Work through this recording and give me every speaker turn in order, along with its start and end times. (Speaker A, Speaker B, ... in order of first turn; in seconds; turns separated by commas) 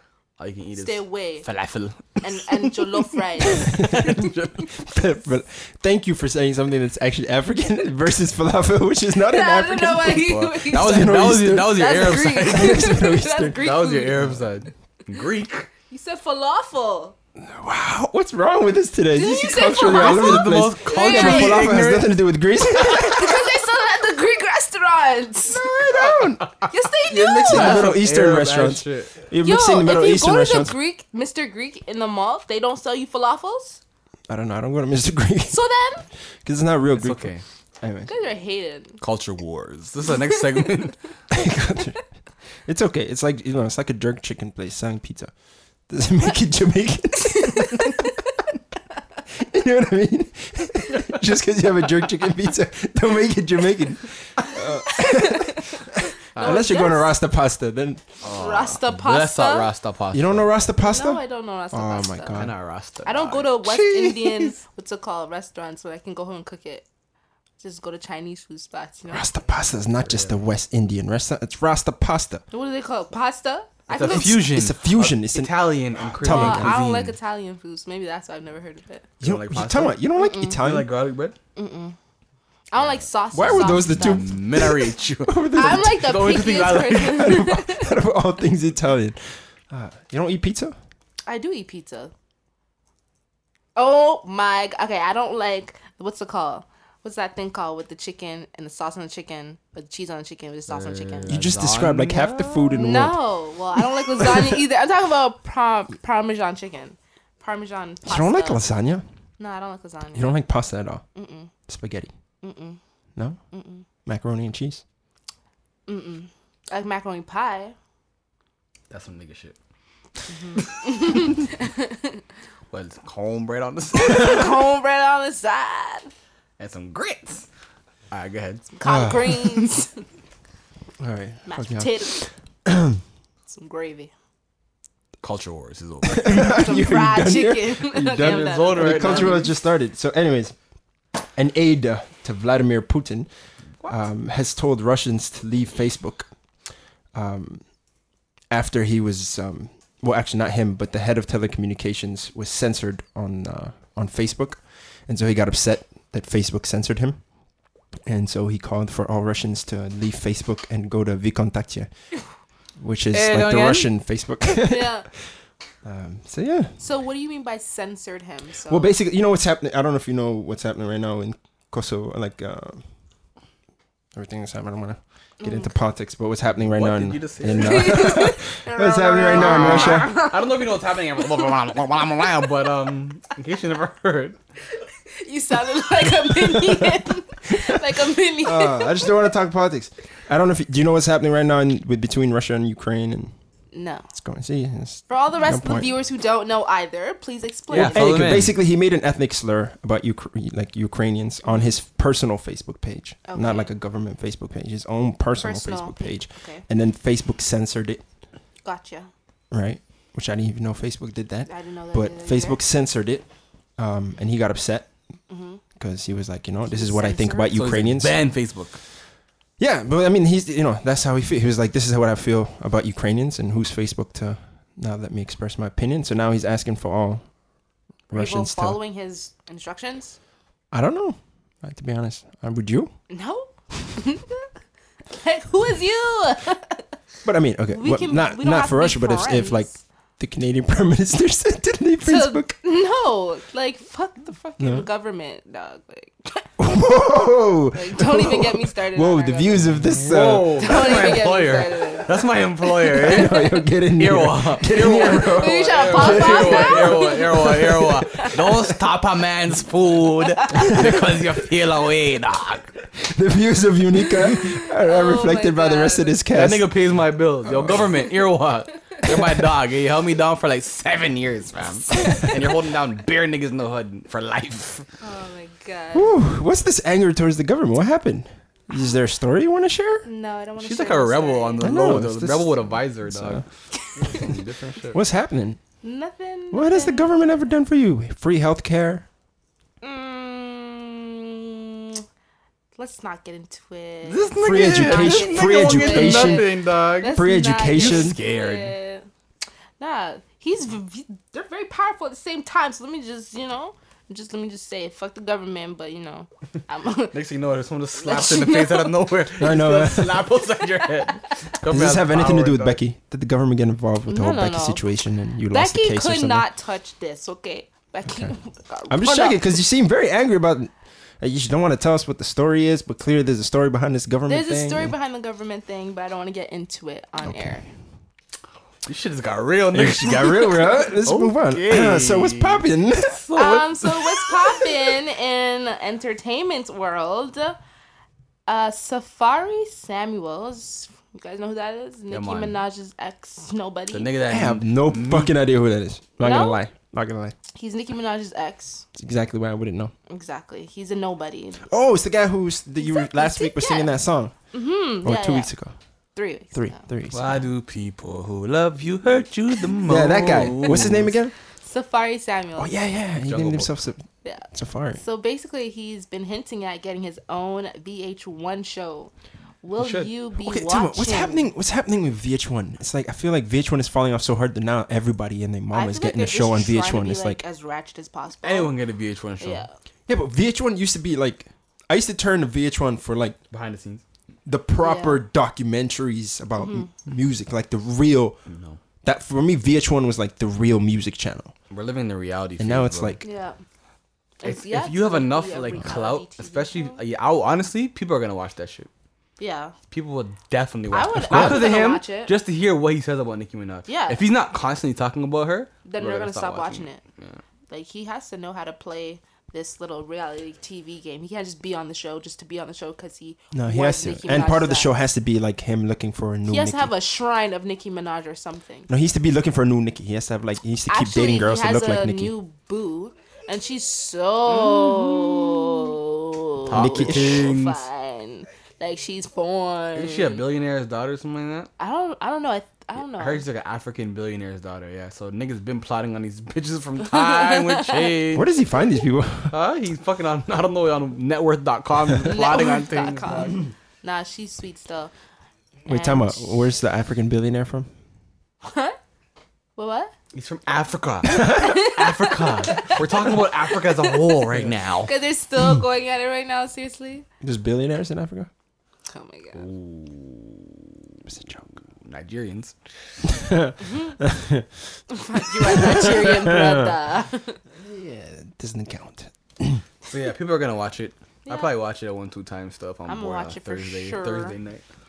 Speaker A: 0.4-4.7, Speaker B: 0.8-1.5, Speaker B: 2.2-3.9, Speaker C: 3.5-14.4, Speaker B: 9.2-14.2, Speaker A: 10.2-12.9, Speaker A: 13.6-15.7, Speaker B: 15.9-17.1, Speaker C: 17.4-23.5, Speaker B: 19.1-21.8, Speaker A: 19.8-22.2, Speaker B: 22.7-25.8, Speaker C: 25.5-26.5, Speaker A: 26.1-26.5, Speaker B: 26.7-27.9, Speaker C: 27.0-30.7, Speaker A: 27.4-29.1, Speaker B: 29.4-33.8, Speaker C: 34.3-35.6, Speaker B: 35.5-36.0, Speaker C: 36.4-38.1, Speaker A: 36.9-37.4, Speaker B: 38.1-39.0, Speaker A: 39.0-41.0, Speaker C: 41.3-42.0, Speaker C: 42.6-45.3, Speaker C: 45.9-48.0, Speaker B: 47.3-48.1, Speaker C: 49.3-58.0, Speaker B: 54.9-55.7, Speaker A: 56.3-56.7, Speaker B: 56.4-57.1, Speaker A: 58.2-60.5, Speaker B: 58.3-59.7, Speaker C: 60.1-62.5, Speaker B: 60.8-62.5, Speaker A: 62.3-63.5, Speaker B: 63.0-66.8, Speaker C: 63.6-64.5, Speaker B: 67.6-69.3, Speaker C: 69.1-72.4, Speaker A: 70.0-70.3, Speaker B: 72.5-74.4, Speaker A: 73.9-77.1, Speaker C: 74.0-76.8, Speaker B: 76.2-79.0, Speaker A: 79.2-80.0, Speaker C: 79.2-80.9, Speaker B: 80.2-80.6, Speaker A: 80.5-81.3, Speaker B: 81.5-82.0, Speaker B: 82.7-84.3, Speaker C: 83.3-86.2, Speaker A: 83.5-87.3, Speaker B: 85.5-87.9, Speaker C: 87.0-90.8, Speaker B: 91.2-92.1, Speaker B: 93.8-101.4, Speaker A: 100.7-102.7, Speaker C: 101.3-103.2, Speaker B: 102.7-108.7, Speaker C: 104.2-104.5, Speaker C: 108.0-109.0, Speaker B: 109.4-110.3, Speaker C: 110.1-111.0, Speaker B: 111.1-111.5, Speaker C: 111.7-112.1, Speaker B: 112.4-112.8, Speaker B: 113.5-113.8, Speaker C: 114.0-114.8, Speaker B: 115.9-117.7, Speaker A: 118.9-119.5, Speaker B: 120.3-122.2, Speaker A: 120.5-121.3, Speaker A: 122.7-124.5, Speaker B: 123.9-126.1, Speaker A: 126.6-127.5, Speaker A: 128.1-128.7, Speaker B: 128.8-130.0, Speaker C: 128.8-129.4, Speaker C: 131.0-133.0, Speaker B: 131.4-132.2, Speaker B: 133.5-134.1, Speaker A: 135.2-136.4, Speaker C: 136.1-140.5, Speaker B: 136.2-139.5, Speaker A: 138.1-139.5, Speaker C: 141.3-143.3, Speaker C: 143.8-146.3, Speaker C: 147.1-147.6, Speaker C: 148.5-157.2, Speaker C: 158.1-161.9, Speaker C: 162.8-165.2, Speaker A: 163.1-163.9, Speaker B: 164.6-165.1, Speaker C: 165.8-166.8, Speaker B: 166.8-168.9, Speaker C: 168.7-172.8, Speaker C: 174.1-180.1, Speaker B: 175.4-175.7, Speaker A: 176.6-178.2, Speaker B: 177.6-180.7, Speaker A: 179.2-184.4, Speaker B: 185.1-189.1, Speaker C: 186.4-187.0, Speaker C: 187.5-187.8, Speaker C: 188.4-193.3, Speaker B: 193.7-194.1, Speaker C: 194.1-195.9, Speaker B: 195.1-198.1, Speaker A: 197.7-198.6, Speaker C: 197.7-208.0, Speaker B: 203.2-203.7, Speaker B: 205.4-206.6, Speaker B: 208.6-209.1, Speaker C: 209.5-213.2, Speaker B: 211.5-212.6, Speaker C: 213.8-214.9, Speaker B: 215.3-215.6, Speaker C: 215.8-218.2, Speaker B: 216.7-217.6, Speaker A: 217.5-218.8, Speaker C: 219.6-227.2, Speaker C: 228.1-228.8, Speaker B: 228.1-230.2, Speaker C: 230.7-232.9, Speaker B: 233.1-234.5, Speaker B: 235.1-236.9, Speaker C: 237.2-242.5, Speaker B: 237.7-239.8, Speaker B: 242.0-246.5, Speaker C: 244.6-244.9, Speaker C: 246.6-250.7, Speaker B: 247.7-249.7, Speaker A: 249.8-262.7, Speaker B: 250.6-252.2, Speaker C: 252.9-258.6, Speaker B: 254.8-258.5, Speaker B: 260.4-260.8, Speaker C: 263.0-266.7, Speaker B: 264.2-266.2, Speaker A: 266.3-274.9, Speaker C: 267.4-267.9, Speaker B: 271.9-272.4, Speaker B: 275.0-276.2, Speaker C: 275.9-280.1, Speaker B: 280.0-281.7, Speaker A: 280.6-285.0, Speaker C: 281.6-283.4, Speaker B: 283.7-284.2, Speaker C: 284.9-285.6, Speaker B: 285.8-287.1, Speaker C: 286.5-289.1, Speaker B: 289.8-292.0, Speaker B: 292.8-299.1, Speaker A: 294.0-298.7, Speaker C: 294.4-296.5, Speaker C: 297.0-298.2, Speaker B: 299.8-307.1, Speaker A: 307.1-312.8, Speaker B: 308.0-308.9, Speaker C: 309.4-310.3, Speaker C: 311.6-316.4, Speaker B: 314.1-314.8, Speaker B: 315.5-319.5, Speaker C: 318.9-324.9, Speaker B: 324.3-327.7, Speaker C: 327.2-327.6, Speaker A: 328.9-334.6, Speaker C: 329.7-333.2, Speaker B: 333.4-337.6, Speaker B: 338.5-344.1, Speaker A: 342.1-342.6, Speaker A: 343.9-345.3, Speaker C: 344.3-347.3, Speaker B: 346.2-346.6, Speaker B: 347.5-348.9, Speaker C: 348.9-349.9, Speaker B: 350.1-351.7, Speaker C: 351.7-354.3, Speaker B: 352.8-353.9, Speaker B: 354.5-355.5, Speaker C: 355.0-355.7, Speaker B: 356.1-356.8, Speaker C: 356.5-357.4, Speaker A: 357.1-361.1, Speaker C: 359.8-361.3, Speaker B: 361.6-362.7, Speaker C: 362.6-365.0, Speaker A: 363.2-363.7, Speaker B: 364.2-371.5, Speaker A: 369.8-370.1, Speaker C: 370.4-377.4, Speaker B: 375.7-378.7, Speaker A: 378.4-379.6, Speaker B: 379.4-379.7, Speaker C: 380.1-383.4, Speaker A: 383.5-384.0, Speaker C: 384.4-388.4, Speaker B: 384.8-385.2, Speaker B: 386.6-386.9, Speaker A: 388.5-388.8, Speaker C: 389.0-391.5, Speaker A: 391.7-393.2, Speaker C: 392.6-393.2, Speaker B: 393.2-393.6, Speaker B: 394.4-397.0, Speaker A: 394.4-398.9, Speaker B: 399.4-399.7, Speaker A: 399.9-407.4, Speaker B: 400.9-402.3, Speaker C: 401.2-401.7, Speaker B: 403.9-404.2, Speaker B: 405.8-407.0, Speaker B: 407.7-414.9, Speaker C: 413.5-416.9, Speaker B: 416.5-418.9, Speaker C: 418.9-422.3, Speaker B: 420.9-430.4, Speaker A: 424.5-425.9, Speaker A: 426.7-427.8, Speaker C: 426.7-427.5, Speaker A: 429.9-431.7, Speaker B: 431.8-433.4, Speaker A: 433.1-438.5, Speaker B: 437.2-438.0, Speaker C: 438.3-439.5, Speaker A: 439.5-443.6, Speaker B: 442.2-445.1, Speaker B: 445.9-446.6, Speaker C: 445.9-447.9, Speaker B: 448.6-449.0, Speaker B: 449.8-450.1, Speaker A: 450.3-455.1, Speaker C: 451.3-451.8, Speaker B: 451.4-454.3, Speaker B: 455.0-457.2, Speaker C: 457.4-458.5, Speaker B: 459.1-459.7, Speaker A: 459.6-460.8, Speaker C: 461.3-461.7, Speaker A: 462.0-462.7, Speaker C: 463.2-464.7, Speaker B: 463.8-464.2, Speaker B: 465.1-467.6, Speaker C: 465.6-466.9, Speaker C: 467.8-469.8, Speaker A: 470.1-474.8, Speaker B: 471.4-471.7, Speaker B: 473.1-474.6